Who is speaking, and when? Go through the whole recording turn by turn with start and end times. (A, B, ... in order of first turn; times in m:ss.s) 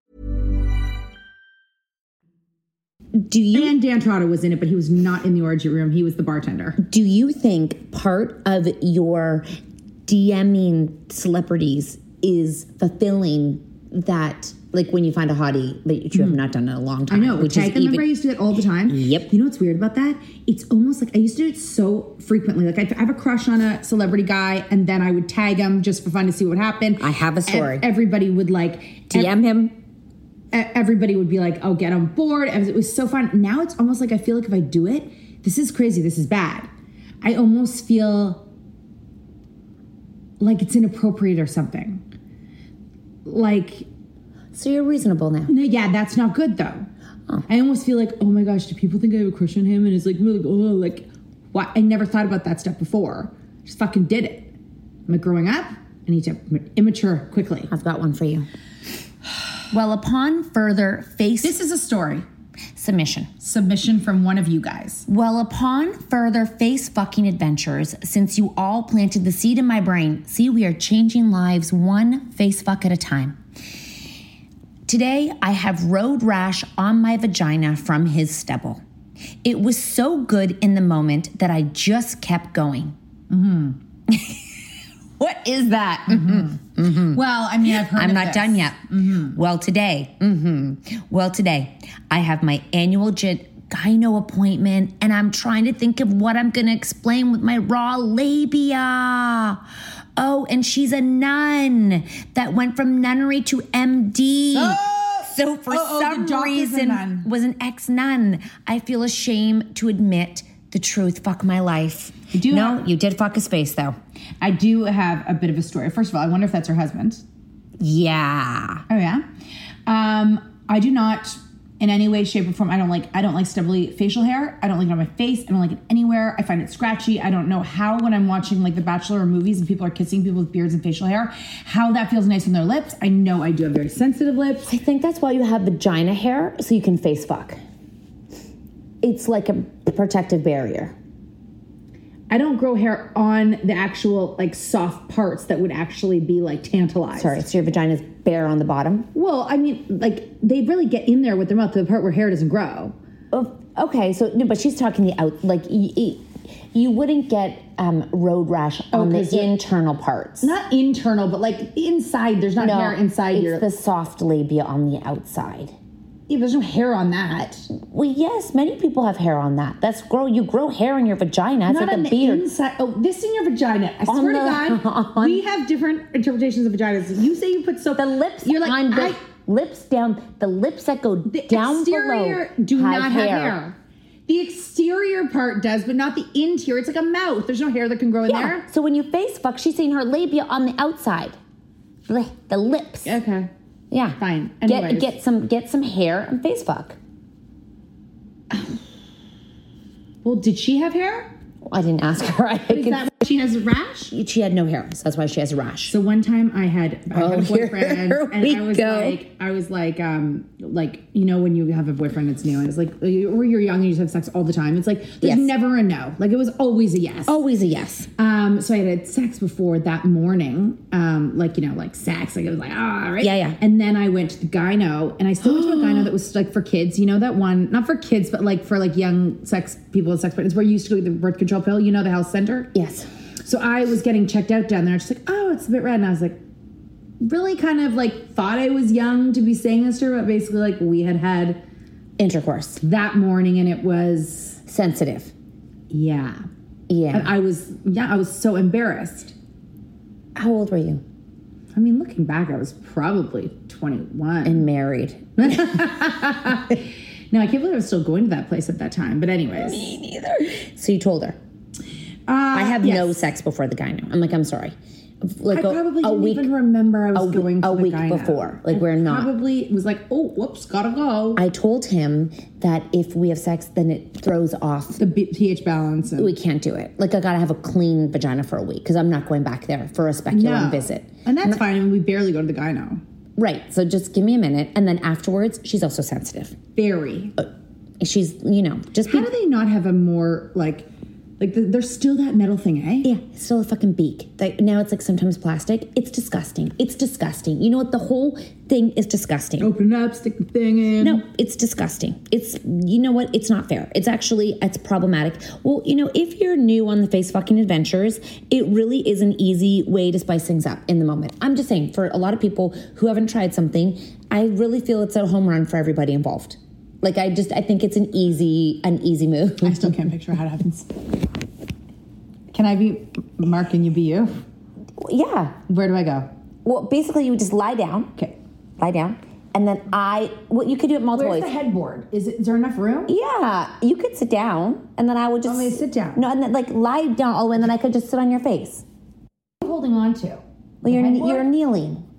0:03.1-0:03.7 A
0:03.5-0:06.8 B
0:06.8-0:09.5 A
0:10.1-0:18.1 A
0:16.1-0:16.4 B
0:17.1-0:29.3 B
0:18.9-0:19.3 A
0:27.0-0:27.8 A
0:29.1-0:29.8 A
0:30.5-0:36.7 B
0:37.2-0:38.4 B
0:40.4-0:42.0 B
0:43.2-0:43.8 B
0:44.5-0:45.5 A
0:45.5-0:46.9 B
0:47.5-0:54.5 B
0:55.1-0:57.7 B
0:57.7-0:58.5 A
0:59.7-1:01.6 A
1:01.4-1:02.2 B
1:02.8-1:03.3 A
1:03.4-1:05.0 B
1:05.1-1:13.4 A
1:14.9-1:18.8 A
1:19.4-1:23.0 A
1:23.3-1:23.8 B
1:24.1-1:24.4 A
1:25.2-1:27.2 A
1:26.1-1:26.6 B
1:27.1-1:29.4 B
1:27.7-1:39.6 A
1:40.2-1:54.0 A
1:44.5-1:47.3 B
1:52.3-1:52.8 B
1:54.4-1:57.2 B
1:57.8-1:58.8 A
1:58.9-1:59.2 B
1:59.8-2:14.7 B
2:14.7-2:17.6 A
2:19.0-2:20.9 A
2:22.3-2:27.4 B
2:27.2-2:29.1 A
2:29.1-2:32.9 B
2:33.3-2:40.5 A
2:38.9-2:39.6 B
2:40.4-2:43.6 B
2:42.6-2:45.7 A
2:46.3-2:47.7 B
2:47.7-2:52.4 A
2:51.7-2:59.2 B
2:54.1-2:55.4 A
2:58.0-3:03.6 A
3:01.3-3:03.8 B
3:04.3-3:08.6 B
3:08.3-3:11.4 A
3:12.1-3:13.1 A
3:13.0-3:13.5 B
3:13.9-3:17.0 A
3:14.2-3:15.1 B
3:20.2-3:21.3 B
3:21.6-3:23.1 A
3:22.7-3:24.1 B
3:24.1-3:25.9 A
3:25.9-3:37.3 B
3:27.1-3:29.2 A
3:35.2-3:35.5 A
3:37.3-3:38.1 A
3:38.2-3:52.7 B
3:43.2-3:43.6 A
3:45.4-3:46.1 A
3:52.7-3:53.1 A
3:53.4-3:56.4 B
3:57.2-4:01.6 B
4:02.2-4:02.8 A
4:02.8-4:04.6 B
4:04.6-4:05.3 A
4:05.9-4:06.4 B
4:06.9-4:07.3 A
4:07.1-4:09.3 B
4:10.4-4:11.0 A
4:11.7-4:14.6 B
4:14.4-4:15.8 A
4:15.4-4:19.9 B
4:19.6-4:21.4 A
4:22.3-4:23.2 B
4:22.5-4:26.5 A
4:25.5-4:31.4 B
4:27.1-4:29.3 A
4:31.4-4:35.0 A
4:35.0-4:36.3 B
4:36.2-4:41.6 A
4:40.3-4:43.0 B
4:43.4-4:46.6 A
4:46.8-4:47.3 B
4:48.0-4:49.3 A
4:49.0-4:50.9 B
4:51.4-4:53.1 B
4:53.0-4:59.7 A
4:59.6-5:01.2 B
5:01.0-5:19.9 A
5:19.6-5:20.8 B
5:22.5-5:24.4 B
5:25.0-5:25.6 A
5:25.7-5:26.3 B
5:26.6-5:28.1 A
5:28.8-5:31.5 A
5:31.1-5:33.1 B
5:33.1-5:38.8 A
5:35.4-5:36.2 B
5:39.6-5:41.5 B
5:40.8-5:42.0 A